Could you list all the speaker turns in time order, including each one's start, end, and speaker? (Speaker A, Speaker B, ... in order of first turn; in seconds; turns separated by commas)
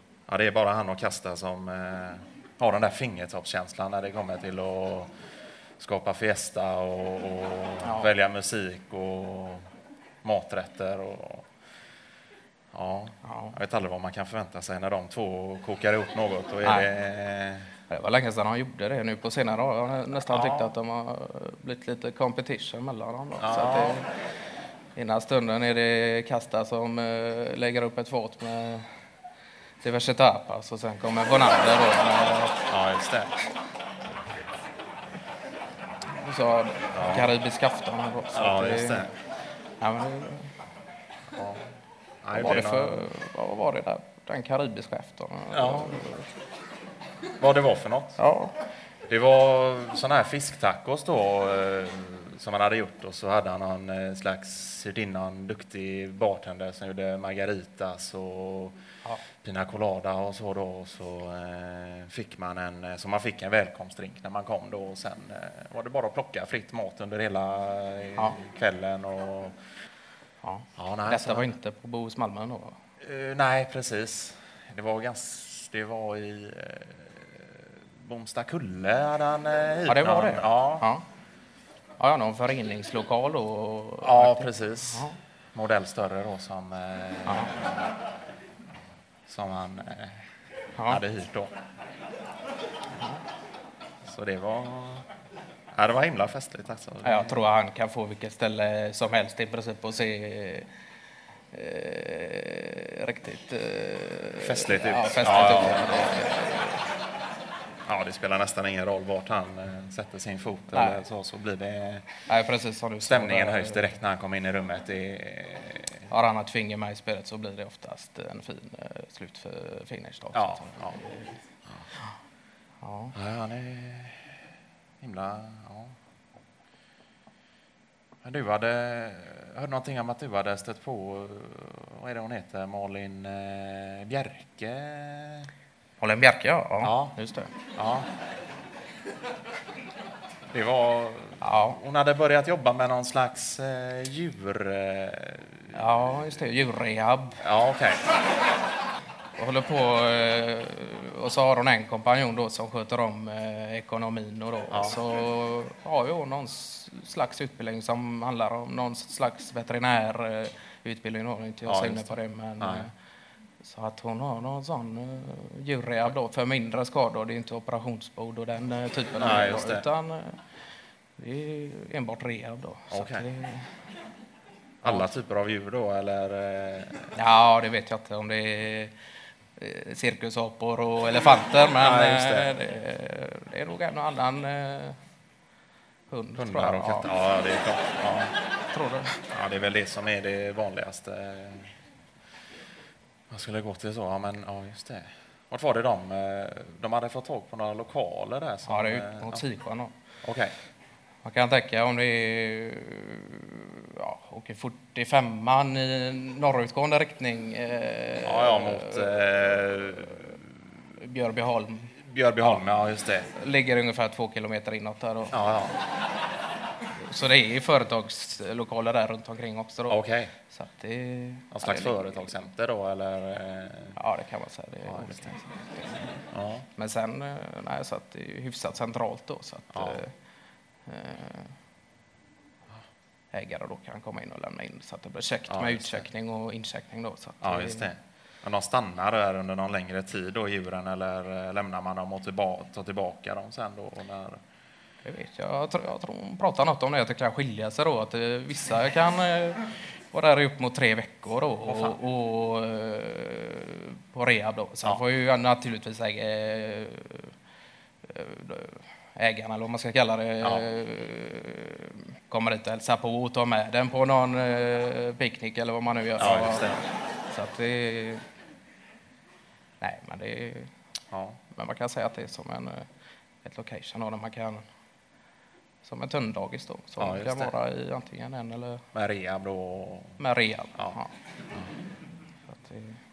Speaker A: 0.3-5.1, Speaker A: 5.8-9.6, Speaker B: 7.8-8.1, Speaker A: 10.2-11.5, Speaker A: 12.7-17.7, Speaker B: 13.2-13.6, Speaker B: 16.6-16.9, Speaker B: 17.9-24.1, Speaker A: 20.3-20.7, Speaker A: 23.4-24.0, Speaker B: 24.9-28.9, Speaker B: 29.8-32.6, Speaker A: 32.7-33.4, Speaker B: 36.1-39.1, Speaker A: 36.9-37.3, Speaker A: 38.3-39.1, Speaker B: 39.8-40.5, Speaker A: 41.3-41.7, Speaker A: 42.2-43.1, Speaker B: 42.3-46.3, Speaker A: 45.5-46.1, Speaker A: 47.4-48.2, Speaker B: 48.2-48.5, Speaker A: 49.1-58.8, Speaker A: 59.4-69.5, Speaker B: 70.4-72.8, Speaker A: 70.8-71.5, Speaker A: 73.0-80.9, Speaker B: 79.9-81.0, Speaker B: 82.0-85.2, Speaker A: 84.0-87.9, Speaker B: 87.3-87.5, Speaker A: 89.3-90.2, Speaker B: 90.8-91.0, Speaker A: 90.9-91.5, Speaker A: 94.0-95.1, Speaker A: 95.8-97.4, Speaker B: 97.0-100.7, Speaker B: 101.5-106.8, Speaker A: 104.4-106.1, Speaker A: 107.9-112.1, Speaker B: 110.7-111.0, Speaker B: 112.3-113.9, Speaker A: 113.0-116.1, Speaker B: 116.1-121.4, Speaker A: 120.3-121.0, Speaker B: 122.8-123.2, Speaker A: 123.1-124.2, Speaker A: 125.0-126.0, Speaker A: 128.2-135.5, Speaker B: 136.0-137.5, Speaker A: 136.8-137.2, Speaker A: 137.8-138.1, Speaker A: 140.5-146.0, Speaker B: 141.4-141.8, Speaker B: 145.7-147.4, Speaker A: 147.4-148.1, Speaker B: 149.4-162.9, Speaker A: 154.7-155.0, Speaker A: 161.7-162.9, Speaker B: 163.6-170.4, Speaker A: 169.2-169.9, Speaker B: 171.2-173.7, Speaker A: 172.9-173.3, Speaker A: 174.8-177.2, Speaker B: 177.1-178.9, Speaker B: 179.6-185.0, Speaker A: 181.8-182.6, Speaker B: 186.1-187.1, Speaker A: 186.4-188.3, Speaker B: 188.7-189.2, Speaker A: 189.3-191.7, Speaker A: 193.3-199.4, Speaker B: 198.7-199.9, Speaker A: 200.2-200.6, Speaker B: 201.2-210.3, Speaker A: 208.2-210.3, Speaker B: 210.9-212.0, Speaker A: 212.0-213.3, Speaker B: 213.3-215.4, Speaker A: 215.3-215.8, Speaker B: 216.9-222.4, Speaker A: 219.9-220.3, Speaker A: 221.5-224.0, Speaker B: 224.0-230.1, Speaker A: 224.8-225.3, Speaker A: 226.3-226.7, Speaker A: 229.7-230.0, Speaker B: 230.9-231.6, Speaker B: 233.3-237.9, Speaker A: 235.5-236.1, Speaker A: 237.4-244.4, Speaker B: 245.0-257.3, Speaker A: 251.6-252.0, Speaker B: 258.1-268.2, Speaker A: 260.4-260.7, Speaker A: 266.2-266.8, Speaker B: 269.8-270.7, Speaker A: 271.1-271.4, Speaker B: 271.5-272.9, Speaker B: 273.4-274.6, Speaker B: 275.8-278.9, Speaker A: 277.0-277.6, Speaker A: 278.9-280.2, Speaker B: 280.2-281.1, Speaker B: 282.5-283.0